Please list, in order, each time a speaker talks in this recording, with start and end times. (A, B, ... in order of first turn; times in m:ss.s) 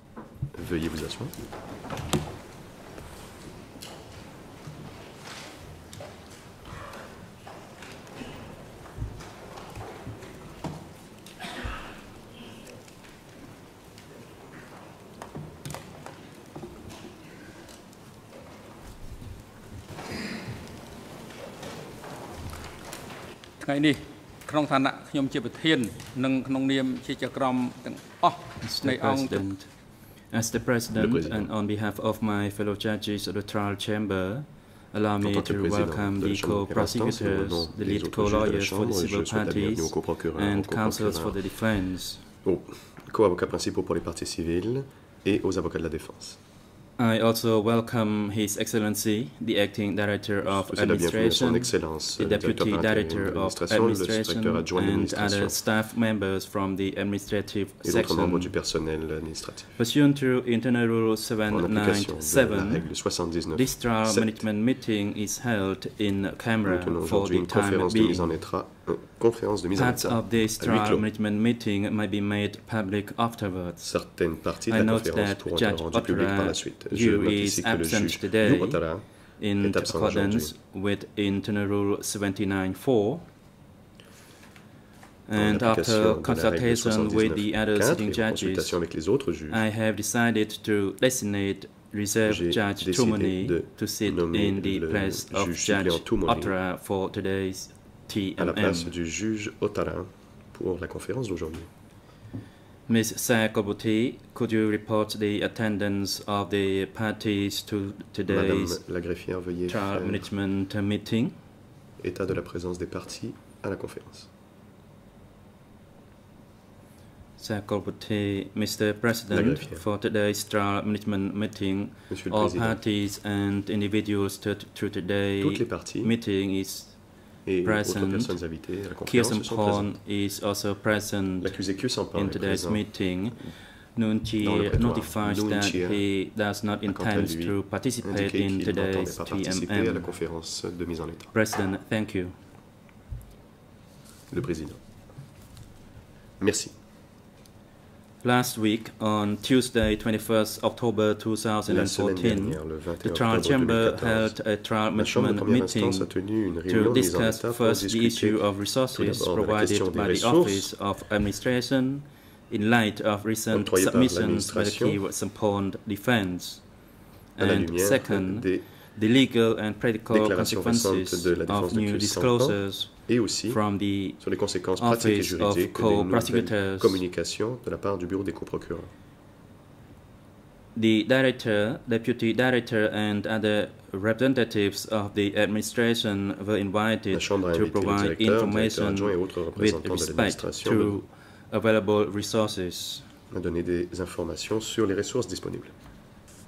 0:00.5-0:01.3 A
0:23.6-0:29.5 B
0:28.6-0:42.2 C
0:30.9-0:31.5 A
0:35.2-0:41.4 A
0:42.4-0:46.4 A
0:47.0-0:58.5 C
0:50.4-0:55.6 A
0:57.8-0:59.7 A
0:59.8-1:02.9 C
1:01.5-1:04.4 A
1:03.5-1:08.3 C
1:06.6-1:11.0 A
1:09.7-1:23.2 C
1:13.8-1:20.5 A
1:25.3-1:28.8 C
1:25.4-1:29.6 A
1:29.5-1:38.9 C
1:32.2-1:36.5 A
1:38.4-1:41.7 A
1:42.9-1:48.8 C
1:48.3-1:50.2 A
1:49.7-1:51.3 C
1:52.0-1:54.3 A
1:57.4-2:08.5 C
1:59.3-1:59.8 A
2:02.1-2:02.8 A
2:05.4-2:06.1 A
2:07.4-2:09.9 A
2:09.0-2:13.4 C
2:11.4-2:13.0 A
2:14.0-2:20.1 C
2:14.4-2:16.0 A
2:16.9-2:21.3 A
2:21.3-2:22.3 C
2:24.3-2:24.8 A
2:26.4-2:26.7 A
2:28.2-2:36.1 C
2:31.7-2:34.3 A
2:34.9-2:38.4 A
2:36.6-2:46.6 C
2:38.9-2:40.7 A
2:43.5-2:45.0 A
2:47.4-2:54.2 C
2:47.4-2:48.6 A
2:50.1-2:53.6 A
2:54.2-2:58.9 A
2:54.8-2:57.0 C
3:00.7-3:13.0 C
3:07.1-3:11.0 A
3:13.3-3:15.7 A